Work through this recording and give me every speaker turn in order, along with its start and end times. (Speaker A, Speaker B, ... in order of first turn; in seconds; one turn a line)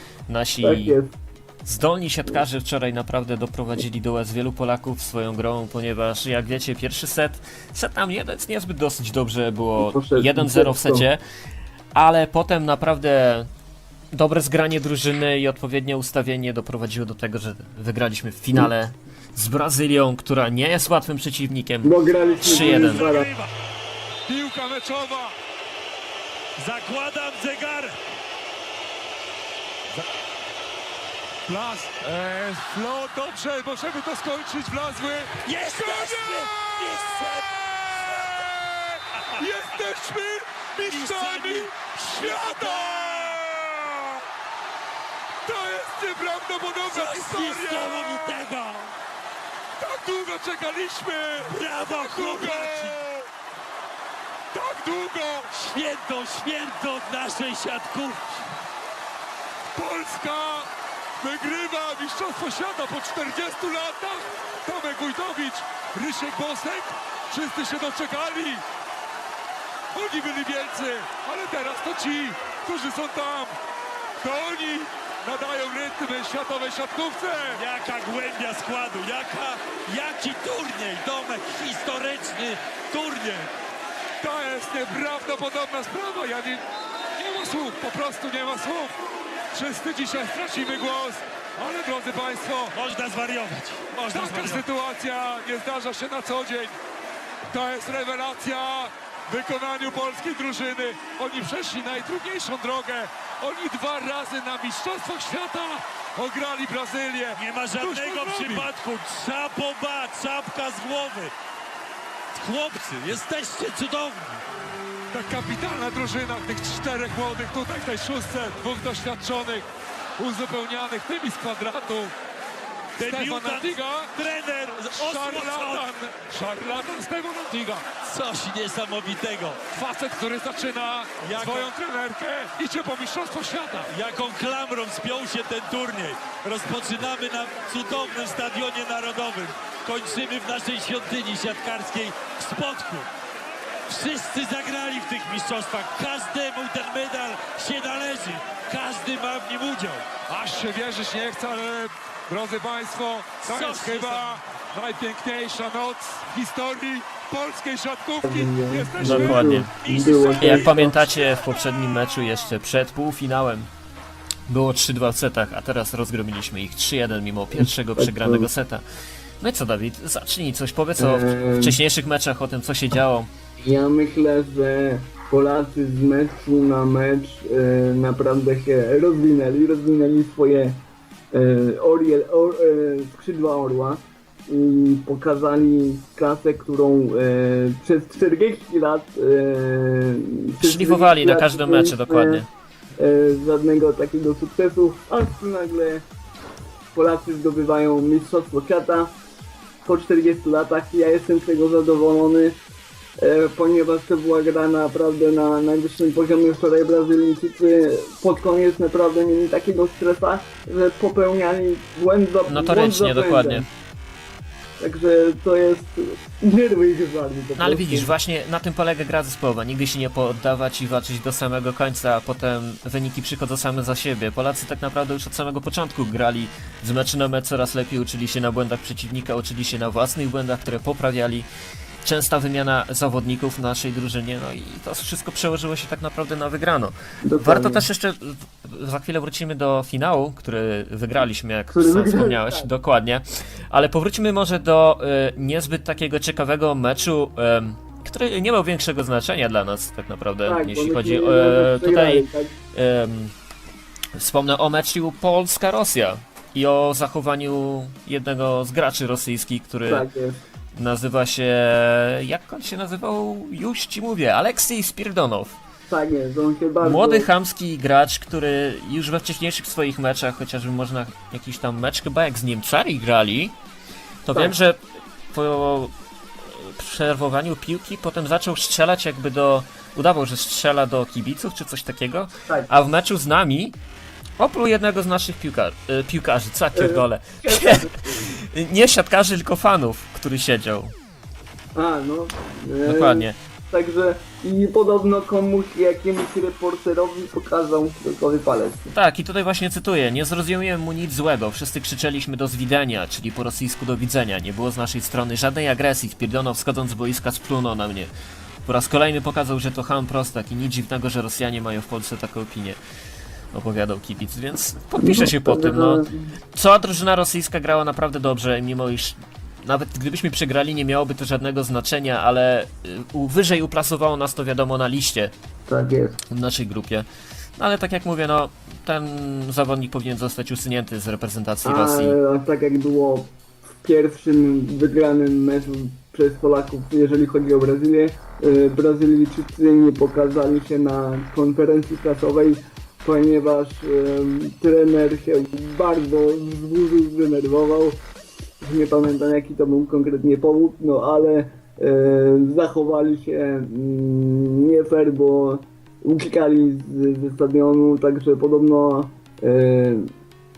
Speaker A: 0.3-1.0
Speaker B: 0.6-1.1
Speaker A: 1.7-11.2
Speaker B: 9.8-11.1
Speaker A: 11.9-13.5
Speaker A: 14.1-23.1
Speaker B: 21.8-23.3
Speaker C: 22.3-23.5
Speaker D: 24.3-25.4
Speaker C: 26.6-28.0
Speaker D: 31.5-36.5
Speaker C: 35.4-37.6
Speaker D: 38.1-44.2
Speaker C: 39.1-39.4
Speaker C: 40.9-43.4
Speaker D: 45.5-48.4
Speaker C: 46.9-48.9
Speaker D: 49.8-53.3
Speaker C: 51.4-53.0
Speaker D: 54.5-55.5
Speaker C: 55.5-58.4
Speaker D: 59.8-60.7
Speaker D: 61.2-68.6
Speaker D: 69.9-73.5
Speaker D: 74.2-77.6
Speaker C: 77.5-83.5
Speaker D: 84.2-86.6
Speaker D: 87.2-88.9
Speaker D: 89.5-92.8
Speaker C: 92.7-94.6
Speaker D: 94.1-96.8
Speaker D: 97.5-108.7
Speaker C: 107.3-111.3
Speaker C: 112.3-114.3
Speaker D: 115.1-119.7
Speaker D: 120.2-122.1
Speaker C: 123.0-125.9
Speaker D: 123.0-124.1
Speaker D: 124.9-127.9
Speaker C: 128.0-129.6
Speaker D: 129.7-133.9
Speaker C: 131.2-131.7
Speaker C: 133.9-143.1
Speaker C: 143.9-150.1
Speaker D: 150.3-160.4
Speaker C: 153.4-154.3
Speaker B: 158.2-161.0
Speaker A: 159.0-159.8
Speaker C: 159.8-160.7
Speaker A: 160.3-163.7
Speaker A: 164.5-168.8
Speaker B: 167.6-168.5
Speaker A: 169.4-173.3
Speaker B: 171.0-171.8
Speaker B: 173.6-192.4
Speaker A: 190.6-192.5
Speaker B: 193.0-196.1
Speaker B: 196.9-199.1
Speaker B: 199.8-202.6
Speaker B: 203.2-213.7
Speaker A: 212.5-213.7
Speaker B: 214.8-218.1
Speaker A: 217.6-231.5
Speaker A: 232.0-253.3
Speaker B: 237.2-237.9
Speaker B: 241.7-242.7
Speaker B: 250.4-252.6
Speaker A: 254.2-260.1
Speaker B: 259.9-260.4
Speaker A: 260.7-265.6
Speaker B: 265.9-267.3
Speaker A: 266.8-273.6
Speaker A: 274.2-283.8
Speaker B: 282.5-282.8
Speaker A: 284.4-290.9
Speaker B: 286.8-288.1
Speaker B: 291.8-298.9
Speaker A: 292.9-293.4
Speaker A: 298.9-308.1
Speaker A: 308.7-312.8
Speaker A: 313.5-325.3
Speaker B: 315.0-316.3
Speaker B: 325.7-326.2
Speaker A: 326.3-327.1
Speaker A: 327.6-332.1
Speaker B: 331.6-348.0
Speaker B: 348.6-360.1